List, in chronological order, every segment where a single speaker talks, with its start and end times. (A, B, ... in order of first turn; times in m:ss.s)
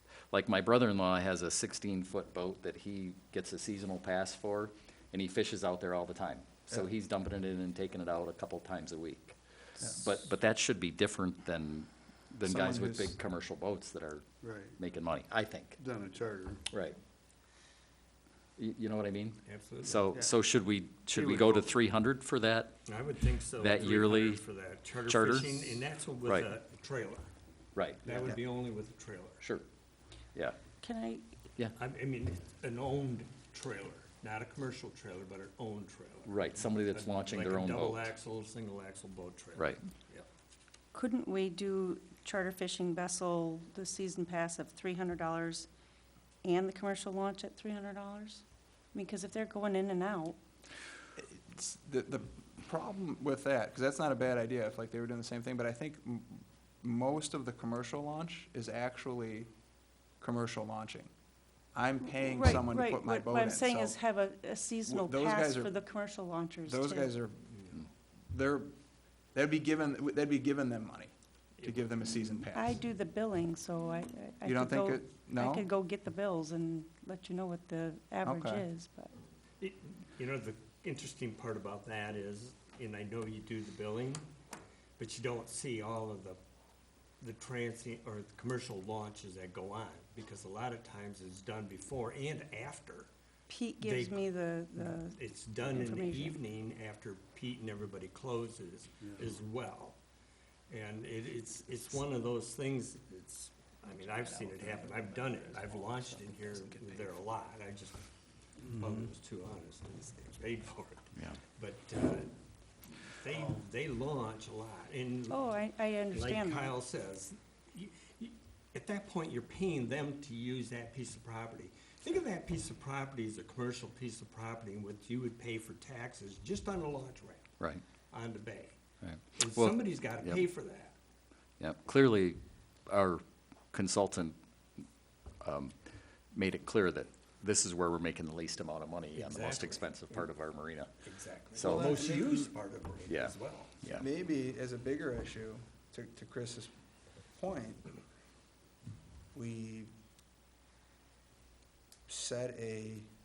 0:00.3-0:14.2 A
0:12.4-0:13.2 B
0:14.4-0:14.8 C
0:14.8-0:15.8 A
0:15.8-0:16.6 C
0:16.7-0:17.0 A
0:18.6-0:22.8 A
0:19.4-0:20.0 D
0:21.1-0:21.6 C
0:22.9-0:27.3 D
0:23.5-0:24.4 A
0:25.0-0:26.5 A
0:27.7-0:28.3 A
0:28.0-0:29.4 D
0:30.8-0:31.2 E
0:31.8-0:40.3 D
0:36.2-0:38.1 A
0:40.9-0:45.7 E
0:46.4-0:50.4 E
0:51.2-0:59.5 B
1:00.2-1:01.1 B
1:01.7-1:04.0 B
1:02.1-1:07.1 E
1:04.8-1:05.8 B
1:06.6-1:08.7 B
1:09.3-1:12.8 B
1:11.6-1:11.9 D
1:12.5-1:19.1 E
1:14.4-1:15.7 B
1:18.2-1:18.7 B
1:19.6-1:24.3 D
1:25.0-1:26.4 D
1:27.2-1:33.1 D
1:33.5-1:36.4 E
1:33.8-1:40.0 D
1:40.7-1:48.0 D
1:48.6-1:52.3 D
1:48.6-1:49.1 C
1:51.1-1:51.4 A
1:52.8-2:07.5 D
1:55.3-1:56.7 E
2:08.1-2:08.8 D
2:09.0-2:10.4 A
2:09.3-2:11.0 D
2:11.6-2:14.4 A
2:15.4-2:15.7 A
2:16.3-2:20.9 A
2:19.1-2:20.2 D
2:21.0-2:23.9 D
2:21.5-2:21.9 A
2:21.6-2:22.5 B
2:23.0-2:24.0 A
2:23.9-2:26.7 B
2:27.4-2:28.0 B
2:29.3-2:29.9 B
2:32.1-2:33.1 B